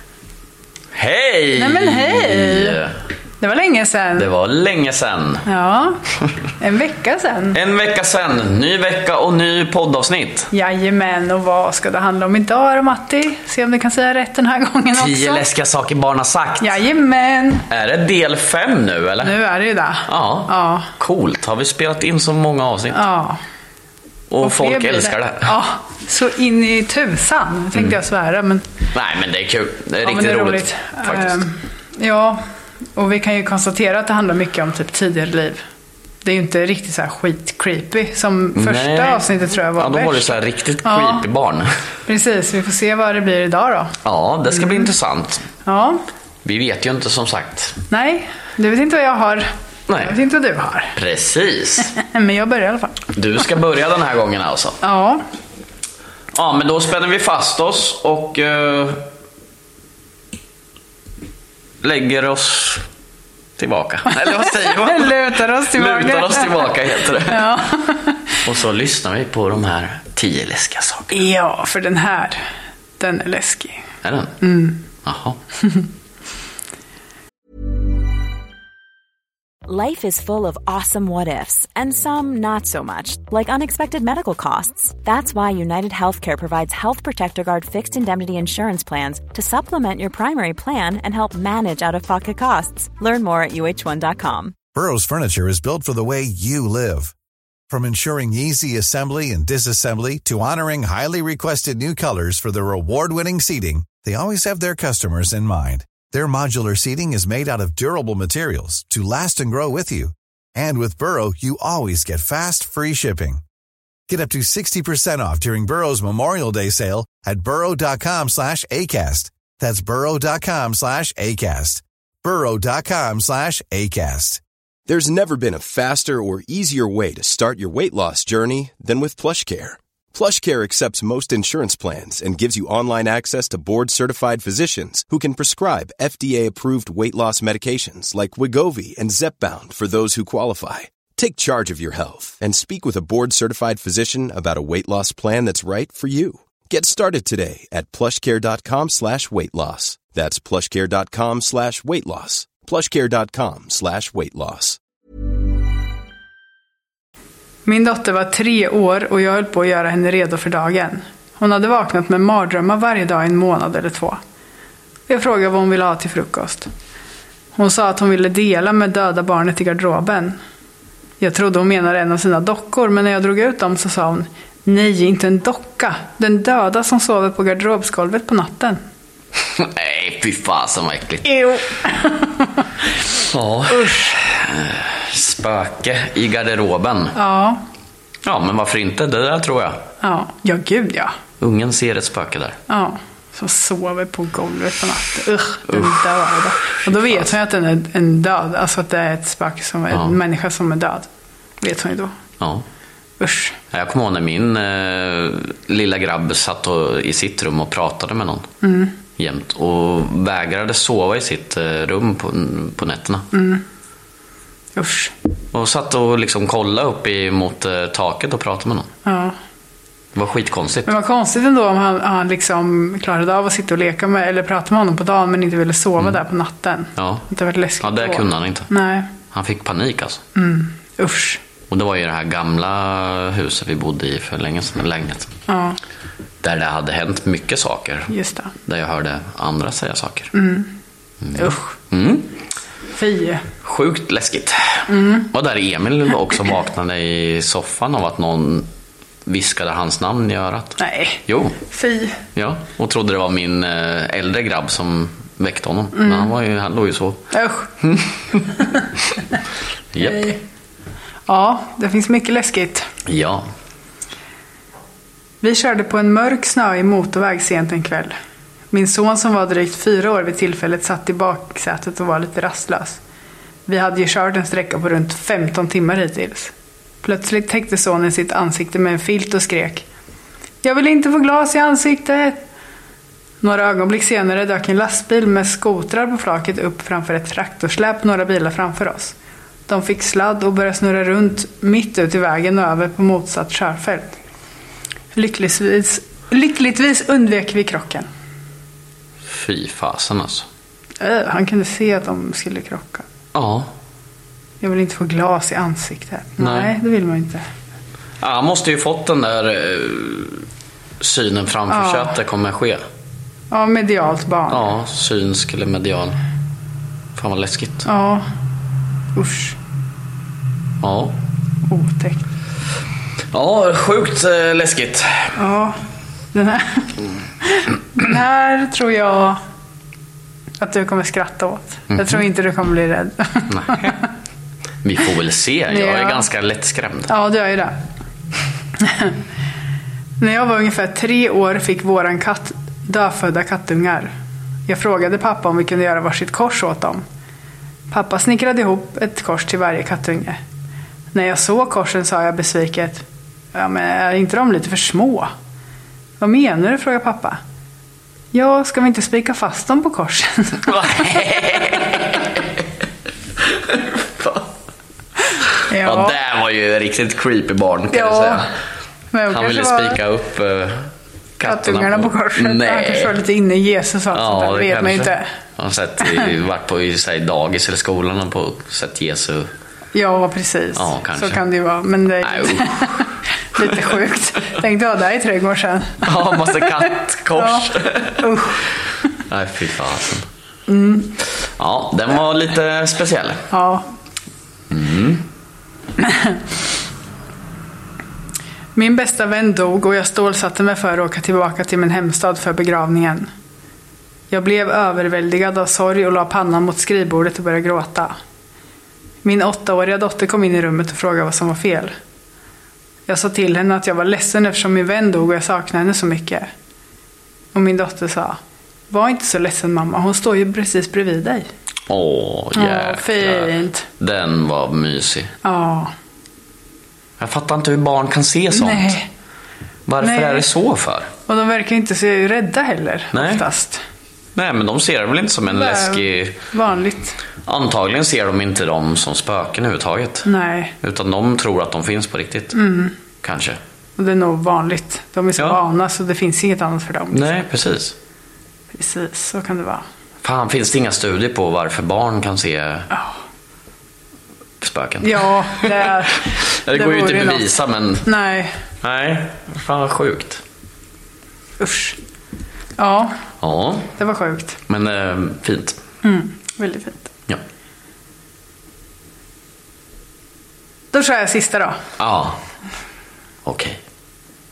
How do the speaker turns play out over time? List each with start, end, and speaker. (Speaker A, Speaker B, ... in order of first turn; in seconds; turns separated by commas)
Speaker A: 0.9-2.9, Speaker B: 1.6-2.8, Speaker B: 3.4-4.3, Speaker A: 4.2-5.4, Speaker B: 5.4-6.0, Speaker B: 6.6-7.6, Speaker A: 7.5-10.5, Speaker B: 10.5-15.4, Speaker A: 14.9-16.8, Speaker B: 16.6-17.6, Speaker A: 17.7-19.4, Speaker B: 19.2-20.9, Speaker A: 20.1-23.0, Speaker B: 22.9-23.4, Speaker A: 24.3-25.5, Speaker B: 24.4-28.6, Speaker A: 28.9-31.4, Speaker B: 30.0-32.4, Speaker B: 32.9-35.6, Speaker B: 36.2-41.2, Speaker A: 38.5-41.7, Speaker B: 42.1-43.9, Speaker A: 44.0-45.5, Speaker B: 44.5-44.9, Speaker B: 45.6-46.0, Speaker A: 46.4-47.8, Speaker B: 47.9-49.5, Speaker A: 49.9-50.2, Speaker B: 50.0-50.9, Speaker A: 51.0-51.9, Speaker B: 52.0-53.0, Speaker A: 53.1-54.8, Speaker B: 54.8-55.2, Speaker A: 56.3-59.0, Speaker A: 61.8-62.8, Speaker A: 63.6-67.5, Speaker B: 64.1-68.2, Speaker A: 68.4-71.1, Speaker B: 71.1-72.4, Speaker B: 73.0-73.8, Speaker A: 74.0-74.4, Speaker B: 74.4-74.8, Speaker A: 75.0-75.4, Speaker C: 79.7-94.5, Speaker D: 94.7-97.1, Speaker D: 97.7-113.4, Speaker D: 114.1-124.4, Speaker E: 124.9-154.8, Speaker B: 157.7-164.2, Speaker B: 165.1-166.7, Speaker B: 167.6-170.4, Speaker B: 171.2-178.8, Speaker A: 179.6-181.2, Speaker B: 181.2-182.6, Speaker A: 183.3-187.1, Speaker B: 183.7-184.0, Speaker B: 187.1-187.6, Speaker A: 188.2-189.8, Speaker B: 190.0-191.1, Speaker A: 191.4-192.6, Speaker B: 192.7-201.1, Speaker A: 195.7-197.3, Speaker B: 201.6-202.1, Speaker A: 202.4-202.6, Speaker B: 203.2-203.6, Speaker A: 203.7-208.5, Speaker B: 208.6-208.9, Speaker A: 209.2-213.3, Speaker B: 213.3-213.6, Speaker B: 214.8-215.1, Speaker A: 215.5-218.9, Speaker B: 219.1-219.3, Speaker A: 220.1-220.9, Speaker B: 220.9-229.1, Speaker A: 226.9-227.2, Speaker A: 227.8-228.7, Speaker A: 229.3-230.2, Speaker B: 230.3-231.4, Speaker A: 231.7-235.3, Speaker B: 235.5-235.8, Speaker A: 236.4-238.1, Speaker B: 238.1-238.5, Speaker A: 238.7-240.3, Speaker B: 240.3-240.7, Speaker A: 241.2-242.3, Speaker B: 241.3-241.7, Speaker B: 242.9-243.4, Speaker A: 243.6-248.7, Speaker B: 244.9-245.3, Speaker A: 249.2-251.6, Speaker B: 250.8-252.2, Speaker A: 252.3-258.5, Speaker B: 255.9-256.3, Speaker B: 257.3-257.7, Speaker A: 259.9-260.3, Speaker B: 260.0-260.4, Speaker B: 261.3-262.9, Speaker A: 263.1-263.4, Speaker B: 265.4-268.1, Speaker B: 268.7-273.0, Speaker B: 273.7-276.5, Speaker B: 277.0-279.8, Speaker B: 280.6-282.4, Speaker B: 283.4-289.1, Speaker B: 289.7-294.2, Speaker B: 295.1-298.1, Speaker A: 299.3-300.5, Speaker B: 301.0-303.1, Speaker A: 303.3-303.7, Speaker B: 304.6-307.4, Speaker A: 306.4-306.7, Speaker A: 308.2-310.4, Speaker A: 311.0-312.8, Speaker B: 311.7-312.1, Speaker B: 313.5-314.7, Speaker A: 314.5-316.2, Speaker A: 317.1-317.9, Speaker B: 317.8-318.2, Speaker B: 319.1-319.6, Speaker A: 320.8-321.2, Speaker B: 321.7-322.2, Speaker A: 323.3-325.3, Speaker B: 325.4-325.8, Speaker B: 326.3-326.9, Speaker B: 327.5-329.4, Speaker B: 330.6-334.0, Speaker A: 333.5-333.8, Speaker A: 334.8-337.1, Speaker B: 335.7-336.3, Speaker B: 337.1-337.8, Speaker B: 338.8-339.1, Speaker B: 340.2-344.1, Speaker B: 344.7-347.0, Speaker B: 347.9-350.4, Speaker B: 351.1-355.3, Speaker B: 356.2-357.4, Speaker B: 358.3-361.2, Speaker A: 360.6-362.4, Speaker A: 363.6-364.5, Speaker B: 365.7-366.1, Speaker A: 365.8-368.5, Speaker B: 367.9-368.4, Speaker B: 369.1-370.0, Speaker A: 369.3-373.1, Speaker B: 371.4-375.3, Speaker A: 374.1-379.5, Speaker B: 379.9-388.6, Speaker A: 380.8-381.4, Speaker A: 382.2-383.0, Speaker A: 383.6-383.9, Speaker A: 386.0-388.2, Speaker A: 389.3-390.2, Speaker B: 390.7-391.1, Speaker A: 391.6-393.5, Speaker B: 393.5-393.8, Speaker A: 394.7-395.2, Speaker B: 396.0-396.4, Speaker B: 398.8-403.3, Speaker B: 404.3-408.1, Speaker B: 409.2-411.9, Speaker B: 413.1-416.5, Speaker B: 417.5-418.4, Speaker B: 418.9-421.5, Speaker A: 421.9-425.3, Speaker B: 422.5-423.8, Speaker B: 425.4-425.9, Speaker A: 427.2-429.0, Speaker B: 428.5-429.1, Speaker A: 429.9-431.1, Speaker B: 430.0-430.5, Speaker B: 431.3-433.8, Speaker A: 433.1-433.4, Speaker A: 434.4-436.4, Speaker B: 435.5-437.2, Speaker A: 437.4-440.3, Speaker B: 440.2-440.7, Speaker A: 440.8-442.6, Speaker B: 442.5-442.9, Speaker A: 443.2-443.6, Speaker B: 444.0-447.4, Speaker A: 447.1-447.9, Speaker B: 448.7-449.8, Speaker A: 450.2-452.9, Speaker B: 452.9-453.2, Speaker A: 454.6-455.7, Speaker B: 455.0-457.5, Speaker A: 456.3-458.1, Speaker B: 458.0-458.5, Speaker A: 458.8-460.4, Speaker B: 461.6-462.0, Speaker B: 462.8-463.1, Speaker A: 463.4-463.9, Speaker B: 464.0-464.6, Speaker A: 464.7-465.8, Speaker B: 466.0-467.1, Speaker B: 470.9-471.8, Speaker A: 472.0-472.4, Speaker A: 473.4-473.8